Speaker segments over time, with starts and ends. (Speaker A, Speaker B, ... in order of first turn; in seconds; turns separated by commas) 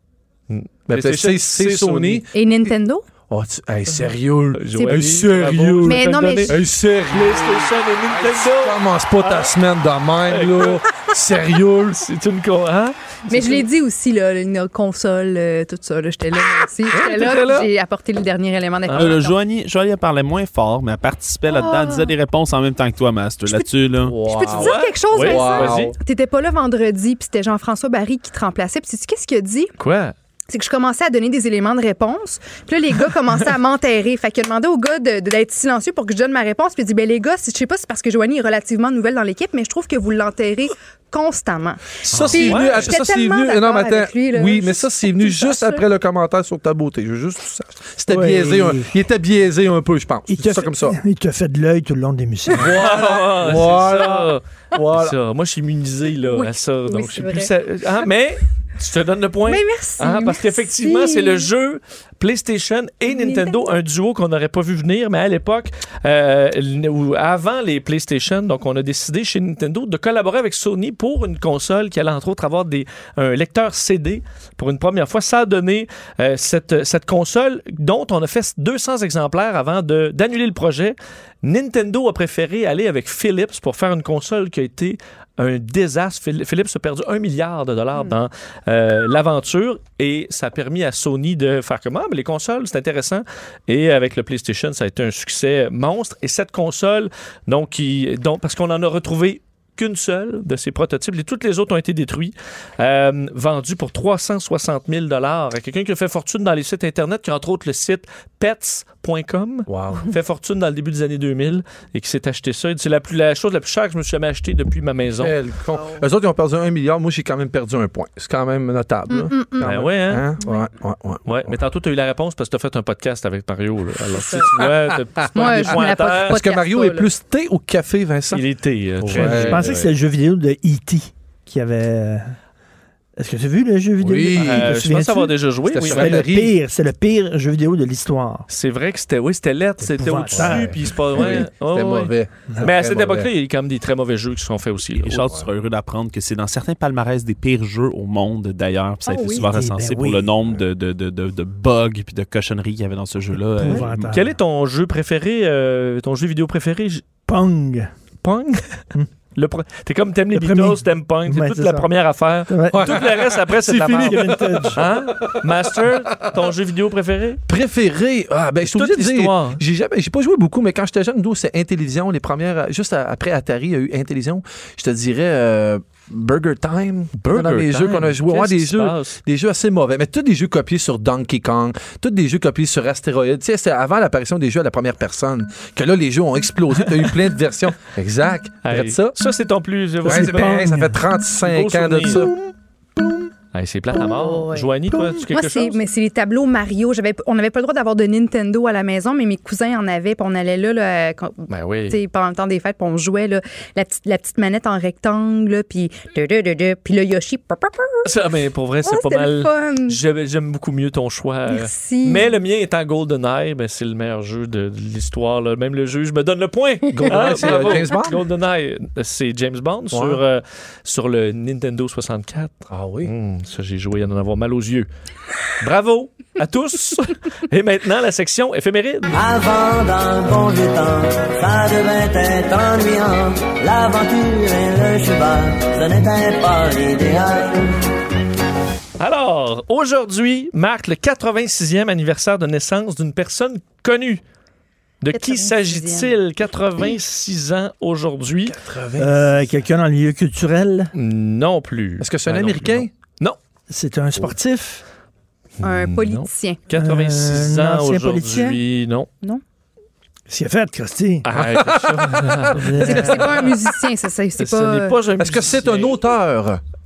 Speaker A: 0.5-2.3, Speaker B: 0.9-2.3, Speaker C: 2.3-3.0, Speaker B: 3.3-12.0, Speaker A: 4.6-9.5, Speaker C: 4.7-5.1, Speaker C: 5.8-6.5, Speaker A: 10.3-10.8, Speaker A: 12.0-13.7, Speaker C: 13.3-19.4, Speaker A: 16.9-17.7, Speaker A: 18.9-19.2, Speaker D: 18.9-24.1, Speaker C: 21.5-22.1, Speaker B: 24.0-25.9, Speaker C: 24.2-29.7, Speaker A: 24.5-25.9, Speaker A: 29.8-30.1, Speaker C: 30.5-45.8, Speaker A: 42.1-42.9, Speaker B: 42.1-51.0, Speaker E: 48.1-48.9, Speaker E: 50.3-52.7, Speaker B: 52.6-55.1, Speaker A: 52.6-115.3, Speaker C: 56.3-57.5, Speaker C: 59.5-61.5, Speaker C: 63.1-63.6, Speaker B: 109.7-110.1, Speaker B: 115.2-121.6, Speaker C: 119.1-119.7, Speaker A: 119.6-120.3, Speaker C: 120.4-120.7, Speaker A: 121.2-126.4, Speaker C: 124.1-124.5, Speaker B: 124.6-128.4, Speaker C: 125.3-127.1, Speaker A: 128.3-129.9, Speaker B: 129.0-129.7, Speaker E: 129.1-132.3, Speaker E: 133.2-138.4, Speaker B: 134.0-134.8, Speaker A: 134.4-136.2, Speaker B: 135.7-136.6, Speaker A: 138.5-145.2, Speaker E: 139.8-140.8, Speaker B: 140.3-143.3, Speaker D: 145.0-154.2, Speaker C: 149.1-149.4, Speaker E: 149.4-150.3, Speaker E: 153.6-154.2, Speaker A: 153.7-157.0, Speaker E: 157.2-157.9, Speaker A: 158.2-158.8, Speaker A: 159.3-167.4, Speaker E: 160.3-161.9, Speaker E: 162.5-162.9, Speaker B: 162.7-165.4, Speaker E: 163.9-164.8, Speaker B: 167.5-189.2, Speaker A: 168.6-169.6, Speaker A: 177.2-179.2, Speaker A: 188.6-190.7, Speaker E: 190.0-191.0, Speaker B: 190.0-192.3, Speaker A: 191.4-192.3, Speaker A: 193.5-195.8, Speaker C: 193.9-194.7, Speaker C: 195.3-208.0, Speaker A: 201.5-202.0, Speaker A: 208.0-224.9, Speaker C: 208.8-210.0, Speaker C: 211.5-212.3, Speaker B: 216.9-218.2, Speaker B: 219.9-220.2, Speaker B: 222.7-223.1, Speaker A: 225.6-229.1, Speaker F: 229.1-237.7, Speaker A: 239.0-244.2, Speaker A: 245.0-248.6, Speaker C: 245.1-246.1, Speaker B: 248.4-249.3, Speaker E: 249.0-250.9, Speaker A: 250.9-253.4, Speaker B: 252.0-252.9, Speaker E: 253.7-254.8, Speaker C: 255.6-256.6, Speaker A: 255.6-259.1, Speaker E: 256.7-258.6, Speaker E: 260.3-261.3, Speaker A: 261.2-263.5, Speaker B: 261.3-262.7, Speaker E: 262.6-263.2, Speaker C: 262.8-264.9, Speaker A: 264.4-266.0, Speaker B: 265.2-266.6